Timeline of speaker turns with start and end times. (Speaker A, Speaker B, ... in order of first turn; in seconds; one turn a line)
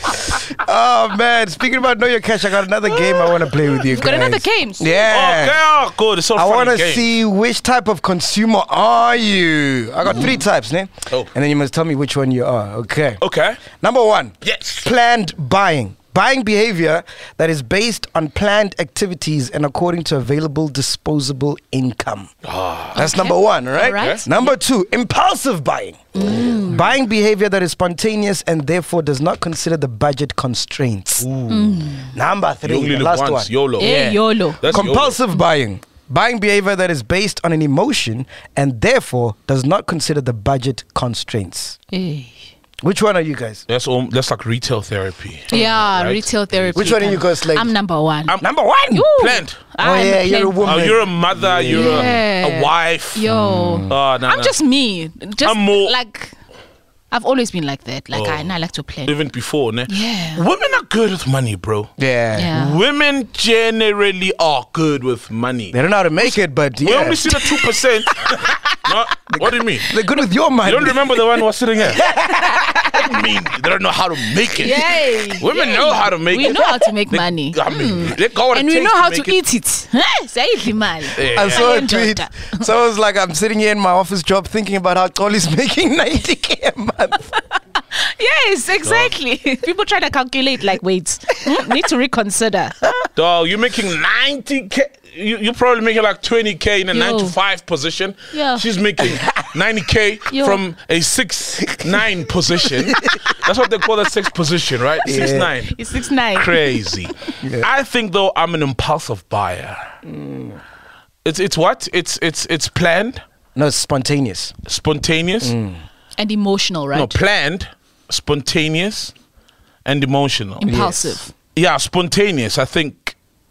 Speaker A: 0.6-5.6
Speaker B: 3.7-4.9
Speaker C: 5.1-7.1
Speaker A: 6.4-13.2
Speaker C: 13.2-13.6
Speaker A: 13.7-22.3
Speaker C: 14.4-14.9
Speaker C: 22.4-23.0
Speaker B: 22.9-24.6
Speaker A: 22.9-31.3
Speaker C: 23.9-24.2
Speaker B: 26.1-26.9
Speaker C: 31.2-31.9
Speaker B: 31.5-32.1
Speaker A: 32.1-41.8
Speaker C: 32.6-35.2
Speaker B: 33.8-34.9
Speaker B: 41.9-42.4
Speaker A: 42.8-43.6
Speaker C: 43.7-46.9
Speaker B: 45.5-48.4
Speaker A: 46.8-47.7
Speaker A: 48.4-49.1
Speaker B: 48.9-50.9
Speaker C: 49.1-49.6
Speaker A: 49.8-52.2
Speaker C: 50.6-53.3
Speaker B: 51.7-56.4
Speaker A: 53.3-54.0
Speaker C: 53.9-54.6
Speaker C: 55.4-55.9
Speaker B: 57.1-59.1
Speaker C: 58.1-58.5
Speaker C: 59.0-61.9
Speaker B: 59.9-60.4
Speaker A: 62.0-62.5
Speaker B: 62.4-62.8
Speaker C: 62.5-69.9
Speaker A: 65.7-67.5
Speaker A: 69.3-71.3
Speaker C: 70.6-72.0
Speaker A: 72.0-72.6
Speaker B: 72.2-72.7
Speaker C: 73.0-79.4
Speaker B: 74.6-82.5
Speaker C: 81.2-81.8
Speaker A: 81.2-87.3
Speaker B: 87.9-92.8
Speaker C: 88.8-89.1
Speaker C: 93.2-105.8
Speaker B: 96.9-97.3
Speaker B: 98.3-98.6
Speaker B: 100.3-100.6
Speaker A: 105.0-105.5
Speaker B: 105.7-106.7
Speaker C: 106.3-109.8
Speaker A: 107.4-107.7
Speaker A: 110.0-110.6
Speaker C: 111.2-113.2
Speaker A: 113.5-114.5
Speaker C: 114.7-115.5
Speaker A: 115.4-115.8
Speaker B: 116.2-117.2
Speaker C: 116.9-119.1
Speaker C: 119.8-120.9
Speaker B: 120.6-121.3
Speaker A: 120.7-121.1
Speaker C: 121.5-123.2